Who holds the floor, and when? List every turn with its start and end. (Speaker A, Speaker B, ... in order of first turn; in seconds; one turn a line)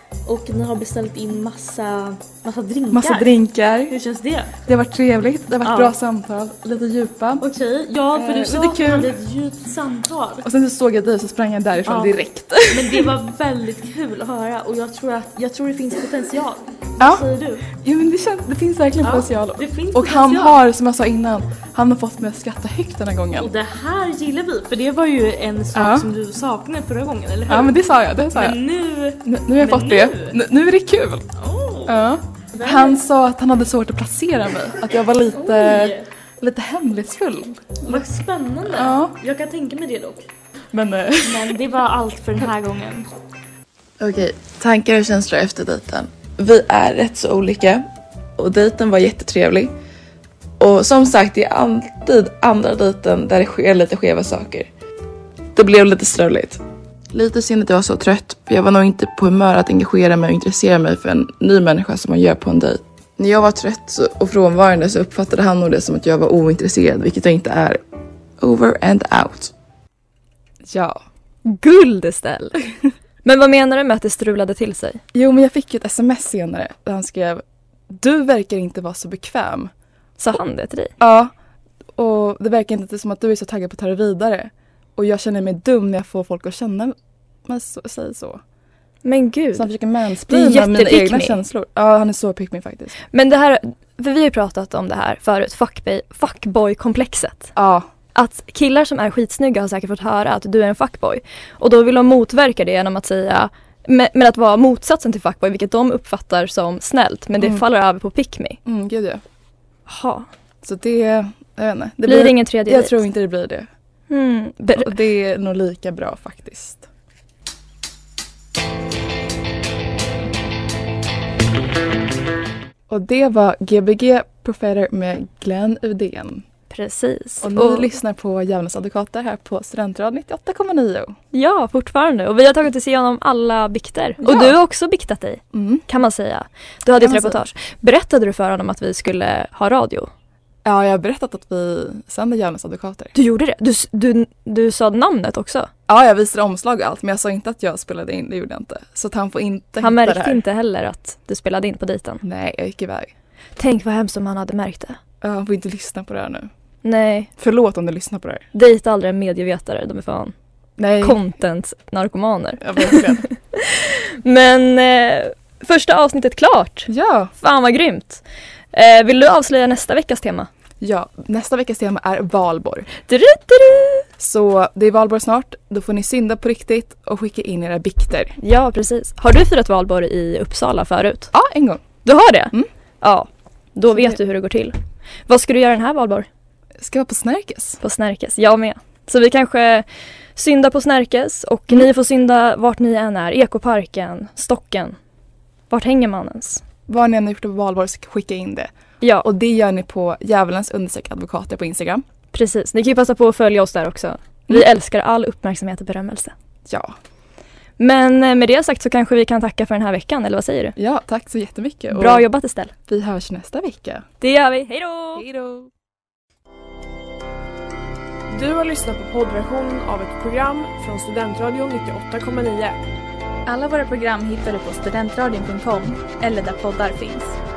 Speaker A: 0.2-3.4
Speaker B: 2.9-4.0
Speaker A: 3.9-4.5
Speaker B: 4.6-7.4
Speaker A: 5.6-6.0
Speaker A: 7.4-10.4
Speaker B: 8.1-9.2
Speaker B: 10.4-13.1
Speaker A: 11.8-17.7
Speaker B: 17.0-23.5
Speaker A: 19.0-20.6
Speaker A: 23.4-27.8
Speaker B: 25.7-26.1
Speaker B: 27.5-28.6
Speaker A: 28.3-30.4
Speaker B: 29.2-31.2
Speaker A: 31.4-32.0
Speaker B: 31.8-38.0
Speaker A: 32.5-33.0
Speaker A: 35.4-36.1
Speaker A: 37.8-40.2
Speaker B: 38.7-39.1
Speaker B: 40.7-41.6
Speaker A: 41.2-43.1
Speaker B: 44.0-47.8
Speaker B: 48.4-49.7
Speaker B: 50.6-54.7
Speaker B: 55.5-67.8
Speaker B: 68.4-69.5
Speaker B: 70.7-71.0
Speaker C: 71.5-72.6
Speaker C: 73.2-75.0
Speaker B: 75.1-79.7
Speaker C: 80.2-80.9
Speaker B: 81.0-81.3
Speaker B: 82.0-86.9
Speaker B: 87.5-88.4
Speaker C: 89.0-89.7
Speaker B: 89.5-92.9
Speaker C: 90.3-91.4
Speaker C: 93.1-97.5
Speaker B: 97.5-97.8
Speaker C: 98.1-108.6
Speaker B: 107.4-107.6
Speaker B: 108.6-109.2
Speaker C: 109.9-110.3
Speaker B: 110.6-113.7
Speaker C: 112.0-113.0
Speaker C: 114.1-115.0
Speaker B: 114.8-116.9
Speaker B: 122.9-126.4
Speaker C: 126.7-127.9
Speaker B: 127.4-131.1
Speaker C: 131.3-140.1
Speaker B: 134.2-134.6
Speaker B: 135.5-135.8
Speaker B: 137.0-137.4
Speaker B: 140.6-143.1
Speaker C: 143.1-145.7
Speaker B: 145.9-150.4
Speaker C: 149.8-152.2
Speaker B: 152.2-153.1
Speaker C: 153.6-155.0
Speaker B: 155.2-156.5
Speaker C: 156.8-157.3
Speaker B: 157.4-158.4
Speaker C: 158.5-160.3
Speaker B: 160.8-161.2
Speaker C: 161.0-170.5
Speaker B: 162.6-163.2
Speaker B: 166.9-167.3
Speaker B: 170.8-172.9
Speaker C: 173.1-174.1
Speaker B: 174.2-178.4
Speaker C: 178.4-181.3
Speaker B: 181.3-181.8
Speaker C: 182.0-184.8
Speaker B: 183.9-184.2
Speaker C: 185.3-186.3
Speaker B: 186.8-187.8
Speaker C: 187.8-194.9
Speaker C: 195.7-196.6
Speaker B: 196.9-198.7
Speaker C: 199.0-199.2
Speaker B: 199.2-202.0
Speaker C: 202.3-206.3
Speaker B: 206.7-206.9
Speaker C: 207.8-210.8
Speaker B: 210.8-212.3
Speaker C: 211.9-212.7
Speaker B: 212.9-214.0
Speaker C: 214.2-215.2
Speaker B: 215.1-215.7
Speaker D: 218.3-222.8
Speaker E: 223.5-227.3